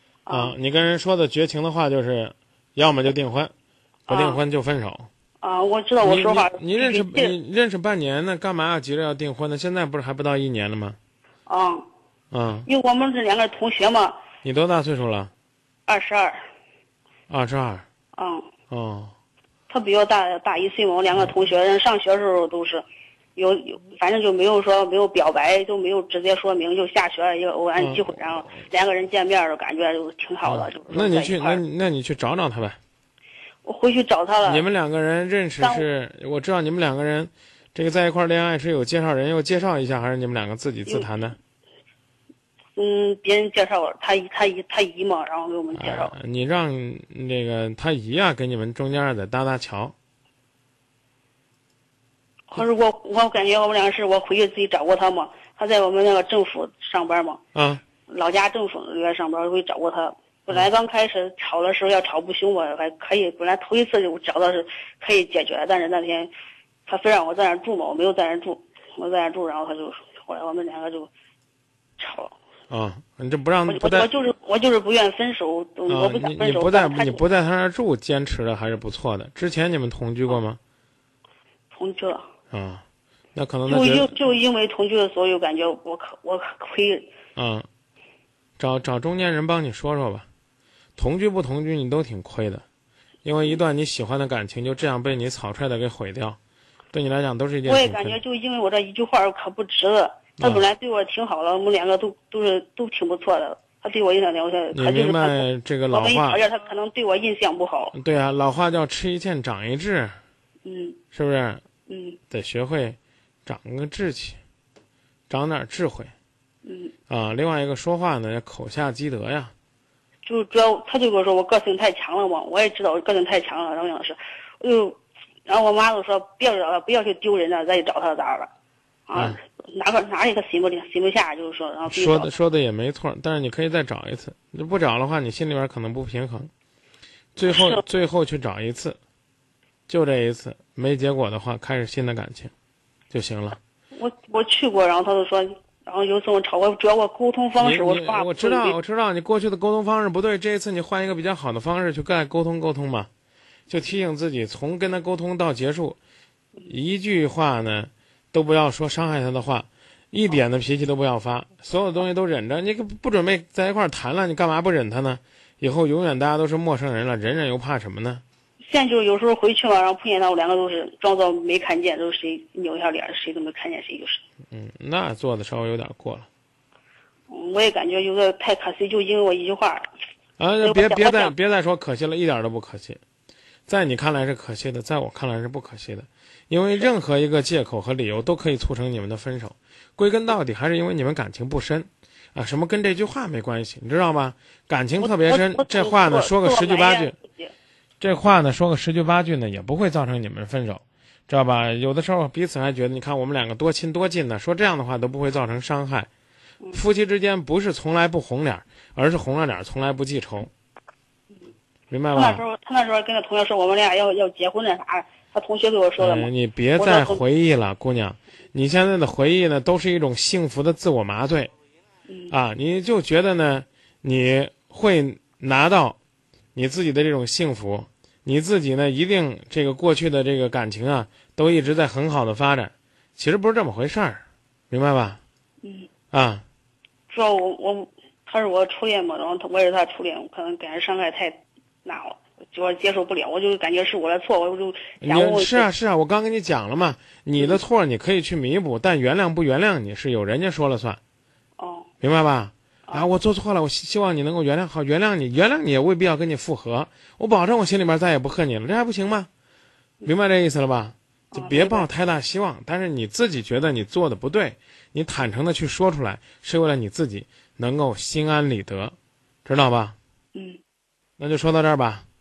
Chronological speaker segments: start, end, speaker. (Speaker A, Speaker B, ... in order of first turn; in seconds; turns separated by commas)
Speaker A: 0.3-0.5, Speaker B: 0.3-3.5, Speaker A: 4.1-4.4, Speaker B: 4.1-5.1, Speaker A: 5.4-7.3, Speaker B: 6.0-11.0, Speaker A: 11.5-11.8, Speaker B: 12.3-12.7, Speaker A: 12.7-14.2, Speaker B: 14.4-15.3, Speaker A: 15.9-16.4, Speaker B: 17.3-17.8, Speaker A: 18.1-18.5, Speaker B: 18.7-19.1, Speaker A: 19.7-22.8, Speaker A: 23.4-31.6, Speaker B: 27.8-28.1, Speaker B: 30.4-32.8, Speaker A: 33.6-34.6, Speaker B: 34.4-41.4, Speaker A: 35.6-35.9, Speaker A: 42.8-46.1, Speaker B: 45.7-49.9, Speaker A: 52.5-57.4, Speaker B: 57.5-57.8, Speaker A: 58.0-66.3, Speaker A: 66.9-71.1, Speaker A: 72.0-72.3, Speaker B: 72.7-74.1, Speaker A: 73.7-77.2, Speaker B: 75.9-80.6, Speaker A: 81.7-82.2, Speaker B: 82.5-82.8, Speaker B: 83.3-84.1, Speaker A: 83.7-87.1, Speaker B: 87.3-87.7, Speaker B: 88.6-90.3, Speaker B: 91.0-92.6, Speaker B: 93.2-96.4, Speaker B: 96.9-98.2, Speaker A: 97.7-107.9, Speaker B: 100.4-100.6, Speaker B: 104.7-106.4, Speaker B: 107.9-110.2, Speaker A: 110.6-111.0, Speaker B: 111.1-111.6, Speaker A: 111.9-112.2, Speaker B: 112.3-114.4, Speaker B: 115.3-116.1, Speaker A: 116.6-116.9, Speaker B: 117.1-119.5, Speaker A: 120.2-128.5, Speaker A: 129.1-132.3, Speaker B: 131.8-136.5, Speaker B: 137.3-139.0, Speaker A: 137.5-137.8, Speaker B: 139.9-142.5, Speaker B: 143.1-143.6, Speaker A: 143.9-148.8, Speaker B: 147.6-153.1, Speaker B: 153.7-156.0, Speaker B: 156.7-168.2, Speaker A: 168.7-174.2, Speaker B: 174.5-176.3, Speaker A: 177.3-179.9, Speaker B: 180.4-183.0, Speaker A: 180.6-181.3, Speaker B: 183.7-197.1, Speaker A: 195.0-197.5, Speaker B: 198.0-206.1, Speaker B: 206.7-210.5, Speaker B: 211.9-212.4, Speaker A: 212.1-217.2, Speaker B: 216.0-221.5, Speaker A: 222.1-222.3, Speaker B: 222.3-226.0, Speaker B: 226.5-235.2, Speaker A: 235.6-235.9, Speaker B: 236.1-236.4, Speaker A: 237.1-245.7, Speaker B: 245.0-251.0, Speaker A: 251.6-251.9, Speaker B: 252.0-259.3, Speaker B: 260.0-269.9, Speaker A: 261.3-261.9, Speaker A: 270.3-270.6, Speaker B: 271.2-272.0